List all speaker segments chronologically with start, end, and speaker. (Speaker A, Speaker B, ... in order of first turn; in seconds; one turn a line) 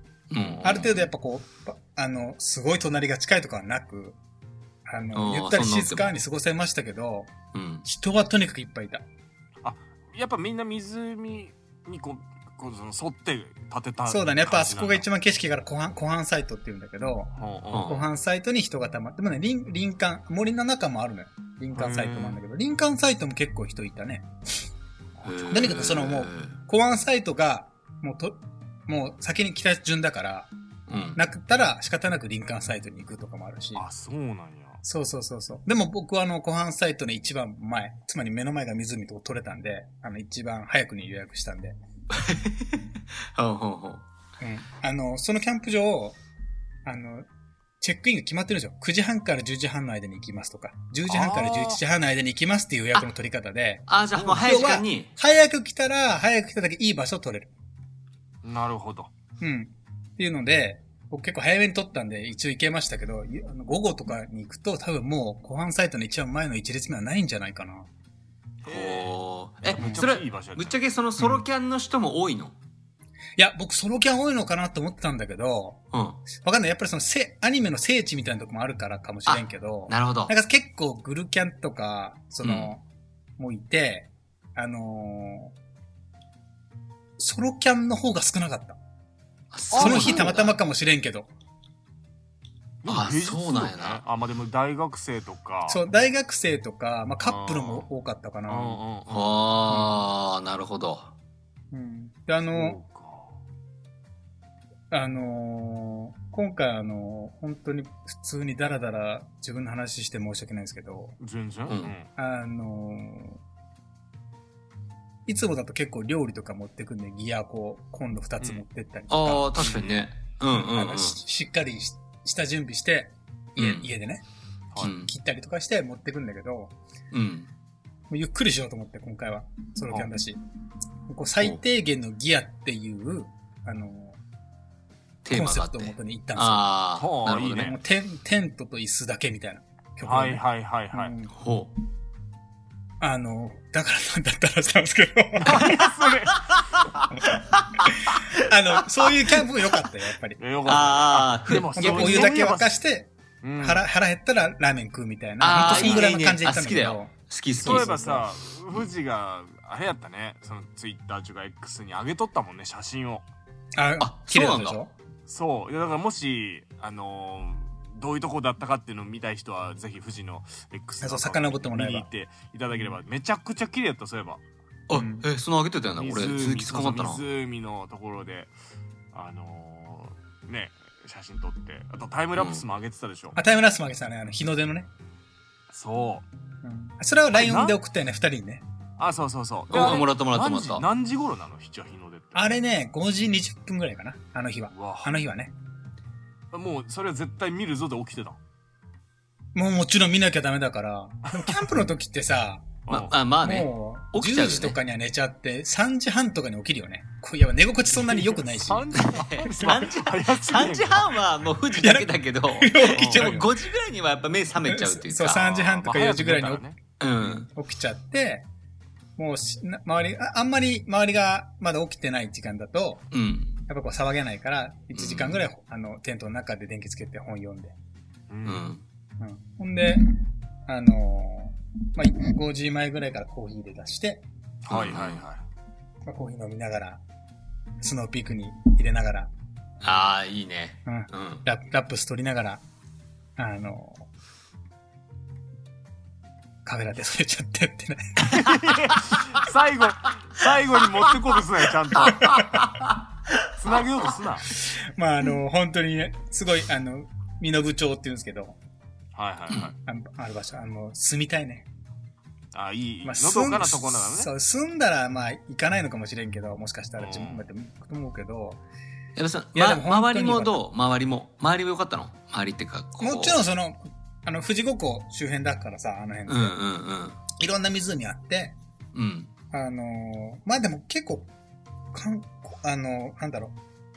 Speaker A: 0.3-1.1
Speaker B: 0.6-4.2
Speaker B: 4.9-7.3
Speaker A: 5.1-6.2
Speaker A: 7.5-7.8
Speaker B: 7.8-9.0
Speaker C: 9.6-15.1
Speaker B: 14.1-24.3
Speaker C: 17.4-18.0
Speaker A: 17.7-18.1
Speaker C: 21.7-22.4
Speaker C: 25.2-25.6
Speaker A: 25.2-26.5
Speaker B: 25.5-30.5
Speaker A: 30.9-31.2
Speaker B: 31.1-33.8
Speaker C: 33.8-34.8
Speaker B: 34.8-41.8
Speaker A: 42.1-44.0
Speaker B: 44.4-46.2
Speaker B: 46.9-47.3
Speaker B: 47.8-57.5
Speaker C: 51.1-51.8
Speaker A: 53.9-55.1
Speaker C: 58.4-59.1
Speaker B: 59.4-67.9
Speaker C: 68.7-69.2
Speaker A: 68.7-72.6
Speaker C: 69.7-70.8
Speaker B: 71.2-71.4
Speaker B: 73.4-82.8
Speaker A: 75.9-76.2
Speaker A: 79.3-80.3
Speaker A: 82.4-82.7
Speaker B: 83.4-85.5
Speaker B: 87.2-88.8
Speaker A: 89.5-90.6
Speaker C: 89.7-90.3
Speaker B: 89.8-91.3
Speaker C: 92.8-95.8
Speaker A: 92.9-94.0
Speaker B: 95.7-98.8
Speaker C: 97.2-97.9
Speaker C: 98.5-99.3
Speaker A: 99.1-101.1
Speaker B: 99.7-100.0
Speaker B: 101.7-102.8
Speaker C: 102.5-103.4
Speaker B: 104.9-111.2
Speaker C: 111.2-112.1
Speaker A: 111.7-111.9
Speaker B: 112.2-113.4
Speaker B: 115.3-119.6
Speaker A: 119.1-121.2
Speaker C: 119.6-119.9
Speaker B: 120.5-124.2
Speaker A: 123.6-123.9
Speaker A: 124.8-125.1
Speaker B: 124.9-126.8
Speaker A: 127.1-127.5
Speaker B: 128.1-130.4
Speaker B: 131.1-134.2
Speaker A: 135.2-137.8
Speaker B: 135.3-136.7
Speaker C: 137.0-137.8
Speaker B: 137.6-141.3
Speaker C: 140.1-141.1
Speaker A: 141.3-141.7
Speaker B: 143.0-145.7
Speaker C: 145.4-146.5
Speaker A: 146.5-148.3
Speaker B: 147.9-150.4
Speaker C: 150.4-152.7
Speaker A: 150.6-152.3
Speaker B: 151.8-158.2
Speaker C: 153.4-153.9
Speaker A: 155.4-158.0
Speaker C: 155.5-156.1
Speaker C: 157.6-163.2
Speaker B: 163.8-164.9
Speaker A: 164.0-164.8
Speaker C: 165.3-174.4
Speaker B: 171.0-172.1
Speaker A: 174.9-177.2
Speaker B: 174.9-175.3
Speaker C: 176.0-178.5
Speaker C: 179.1-183.4
Speaker A: 182.4-182.6
Speaker B: 183.4-184.9
Speaker C: 185.7-186.2
Speaker B: 186.6-188.6
Speaker C: 187.3-187.8
Speaker C: 189.0-192.5
Speaker A: 189.7-190.9
Speaker B: 192.3-195.5
Speaker C: 194.7-195.2
Speaker C: 196.5-198.4
Speaker B: 199.6-202.8
Speaker C: 201.3-201.7
Speaker C: 202.9-203.1
Speaker A: 202.9-204.8
Speaker B: 203.4-209.0
Speaker C: 207.9-211.1
Speaker A: 209.0-215.7
Speaker B: 211.8-213.5
Speaker C: 212.9-213.4
Speaker B: 214.7-216.7
Speaker C: 215.6-216.8
Speaker A: 217.0-217.5
Speaker B: 217.2-218.5
Speaker B: 219.2-223.1
Speaker A: 223.1-223.6
Speaker B: 223.7-227.8
Speaker A: 224.9-225.5
Speaker C: 228.3-228.7
Speaker A: 228.4-228.8
Speaker B: 229.2-230.1
Speaker B: 230.7-234.2
Speaker C: 234.7-235.4
Speaker A: 234.7-235.3
Speaker B: 236.1-237.0
Speaker B: 237.8-239.3
Speaker A: 239.8-241.4
Speaker B: 240.9-242.6
Speaker B: 243.4-244.1
Speaker B: 246.7-248.5
Speaker C: 248.3-252.4
Speaker A: 252.0-252.9
Speaker B: 252.2-252.5
Speaker C: 253.6-254.5
Speaker B: 254.8-258.6
Speaker C: 259.1-259.8
Speaker B: 259.8-261.7
Speaker C: 262.5-264.3
Speaker B: 263.0-268.6
Speaker C: 267.0-267.5
Speaker A: 269.2-273.4
Speaker B: 269.5-270.6
Speaker B: 273.0-276.6
Speaker A: 276.3-277.2
Speaker B: 277.4-278.6
Speaker A: 278.9-279.3
Speaker B: 279.5-281.3
Speaker B: 281.9-283.6